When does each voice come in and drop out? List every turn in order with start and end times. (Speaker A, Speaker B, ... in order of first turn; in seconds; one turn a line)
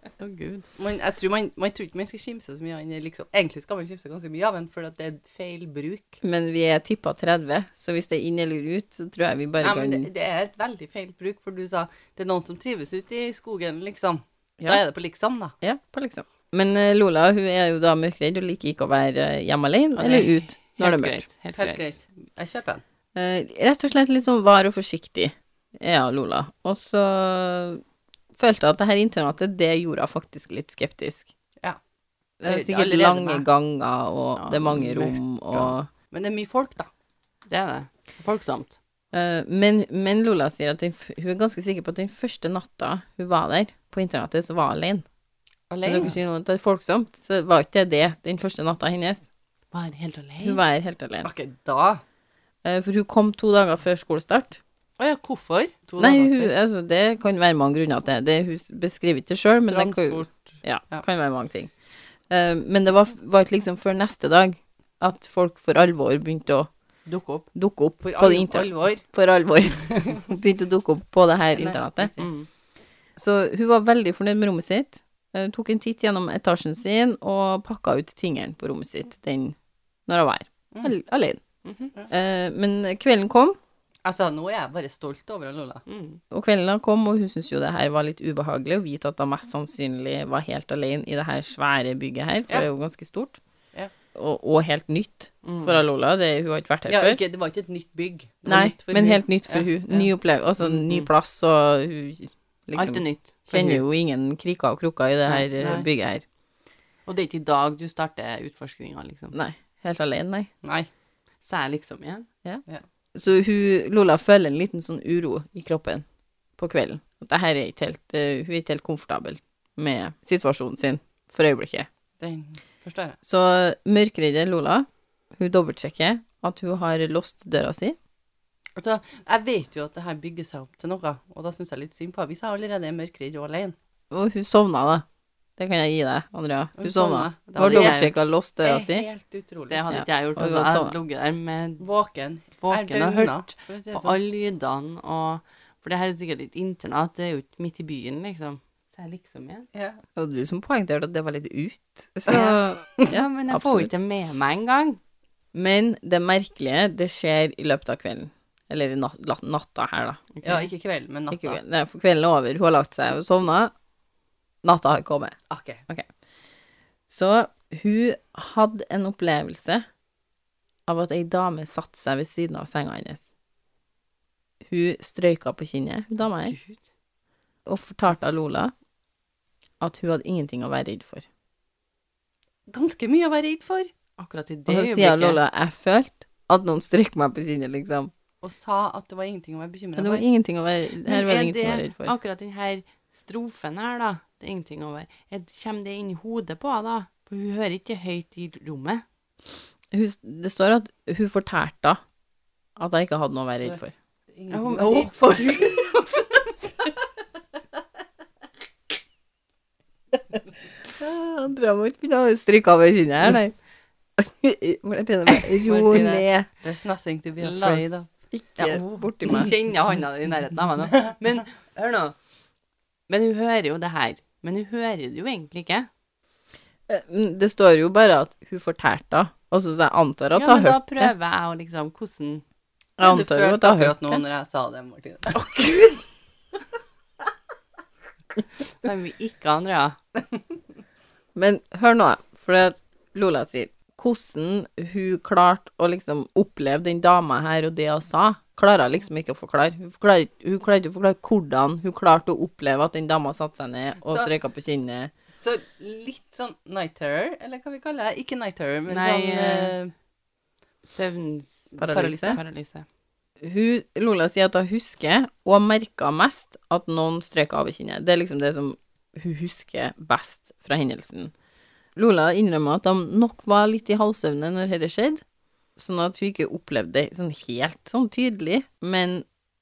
Speaker A: 0.2-0.7
Speaker B: 0.8-6.2
Speaker C: 6.2-10.1
Speaker B: 9.6-15.5
Speaker C: 15.6-21.2
Speaker A: 20.0-21.9
Speaker B: 21.5-22.8
Speaker C: 23.1-27.8
Speaker C: 28.3-31.3
Speaker C: 32.4-35.9
Speaker B: 32.4-33.5
Speaker A: 34.5-35.1
Speaker B: 34.7-36.9
Speaker A: 37.5-38.8
Speaker C: 39.1-45.0
Speaker B: 45.7-46.2
Speaker C: 45.8-49.2
Speaker A: 49.7-50.6
Speaker C: 50.4-51.3
Speaker B: 51.2-52.0
Speaker C: 52.6-54.6
Speaker B: 55.0-56.5
Speaker C: 56.0-61.7
Speaker A: 59.7-60.1
Speaker B: 59.9-60.2
Speaker C: 62.3-66.7
Speaker B: 67.1-67.5
Speaker C: 67.5-72.1
Speaker B: 68.0-69.0
Speaker B: 71.5-72.3
Speaker A: 72.2-72.5
Speaker C: 73.2-79.5
Speaker C: 80.1-81.4
Speaker A: 81.6-81.9
Speaker C: 82.1-83.6
Speaker B: 84.0-85.8
Speaker A: 85.9-86.2
Speaker C: 86.3-93.4
Speaker C: 94.1-97.2
Speaker A: 95.4-95.8
Speaker B: 96.9-100.1
Speaker C: 98.5-106.2
Speaker A: 100.7-101.1
Speaker A: 102.7-103.8
Speaker B: 105.3-105.9
Speaker A: 107.0-109.3
Speaker C: 109.3-110.5
Speaker B: 110.6-110.9
Speaker A: 111.4-112.3
Speaker C: 113.1-116.0
Speaker C: 116.6-121.9
Speaker B: 122.2-123.2
Speaker C: 123.2-128.0
Speaker B: 128.8-133.7
Speaker C: 134.1-135.0
Speaker C: 135.6-139.1
Speaker B: 136.8-138.1
Speaker A: 137.6-138.1
Speaker B: 138.6-139.8
Speaker A: 139.7-141.8
Speaker C: 139.9-140.9
Speaker B: 141.8-144.2
Speaker A: 142.6-149.7
Speaker B: 149.7-150.0
Speaker C: 150.2-153.9
Speaker A: 152.3-155.0
Speaker C: 155.5-160.2
Speaker A: 160.3-160.7
Speaker B: 160.4-161.6
Speaker C: 161.3-163.7
Speaker C: 164.6-165.4
Speaker B: 165.5-165.8
Speaker C: 167.1-169.8
Speaker C: 170.9-173.2
Speaker C: 174.6-176.5
Speaker A: 176.4-176.8
Speaker C: 177.7-178.7
Speaker C: 179.8-181.2
Speaker B: 182.7-183.9
Speaker A: 184.2-185.4
Speaker C: 184.7-188.1
Speaker B: 188.4-190.2
Speaker C: 190.0-192.1
Speaker A: 191.0-199.0
Speaker C: 199.9-202.0
Speaker C: 202.8-203.9
Speaker B: 204.3-206.2
Speaker A: 204.5-206.1
Speaker C: 210.9-213.5
Speaker C: 214.2-216.5
Speaker B: 215.5-218.1
Speaker A: 217.4-218.1
Speaker C: 218.3-219.5
Speaker A: 218.6-222.2
Speaker A: 223.1-225.9
Speaker C: 226.9-231.1
Speaker A: 230.3-232.4
Speaker C: 233.0-234.2
Speaker B: 233.0-235.5
Speaker A: 235.3-236.0
Speaker A: 238.8-239.9
Speaker C: 241.3-255.1
Speaker B: 254.0-254.3
Speaker B: 255.3-259.9
Speaker A: 258.9-259.8
Speaker A: 260.8-262.9
Speaker C: 261.8-262.4
Speaker B: 261.9-262.2
Speaker C: 263.4-271.3
Speaker C: 271.9-275.2
Speaker C: 275.8-279.2